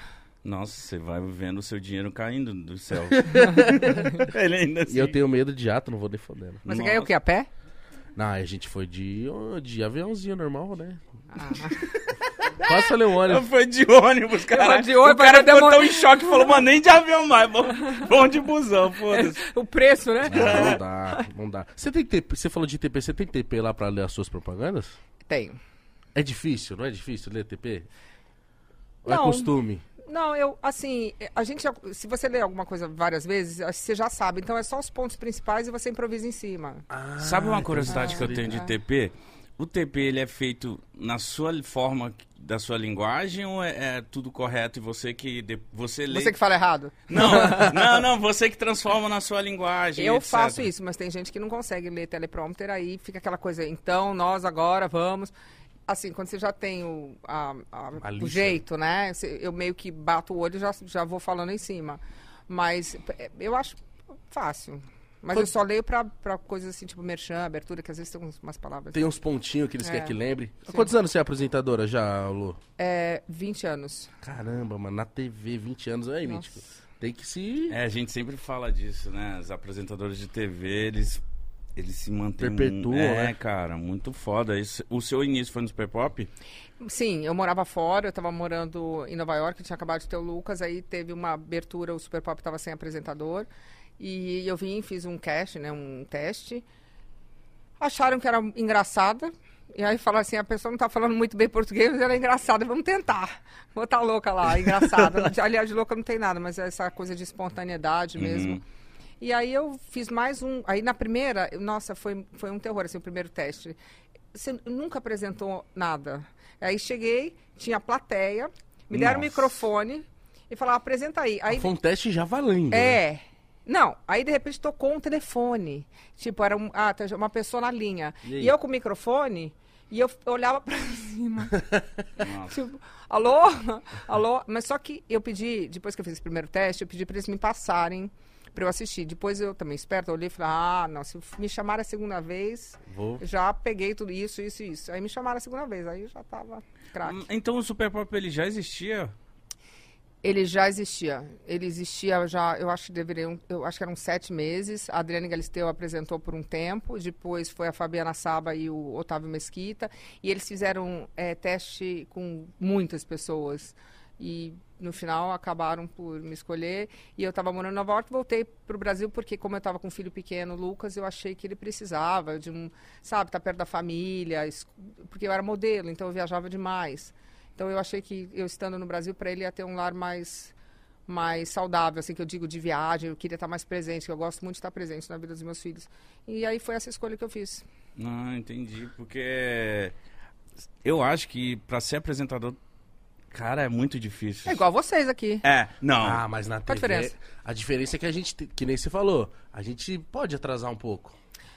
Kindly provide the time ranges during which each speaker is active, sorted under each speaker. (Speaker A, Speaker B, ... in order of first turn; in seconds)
Speaker A: 0.4-5.1, 6.7-7.1, 12.4-19.4, 20.3-20.8, 37.2-46.4, 47.1-50.7, 77.7-81.2, 81.8-86.3, 108.2-108.6, 118.9-119.6, 132.2-132.6, 147.0-149.1, 188.0-189.9, 190.8-192.6, 193.3-194.6, 195.4-196.2
Speaker B: 3.1-3.8, 4.9-6.7, 8.2-11.0, 12.6-13.5, 20.2-25.0, 26.1-27.9, 29.0-29.8, 36.9-38.6, 58.0-58.6, 68.9-72.6, 74.2-77.8, 82.4-83.3, 121.5-123.0, 128.2-128.5, 142.9-143.2, 196.0-201.1
Speaker C: 3.7-4.1, 6.7-7.5, 11.3-11.9, 14.5-16.6, 19.1-21.2, 25.3-25.6, 29.1-29.5, 30.0-36.9, 37.9-38.7, 46.1-47.8, 50.0-55.3, 55.9-69.0, 69.8-70.2, 72.8-74.1, 86.8-93.5, 94.0-96.6, 97.8-108.6, 109.2-113.8, 114.3-121.7, 122.7-147.3, 150.2-180.5, 181.1-187.6, 194.4-195.4, 196.7-197.1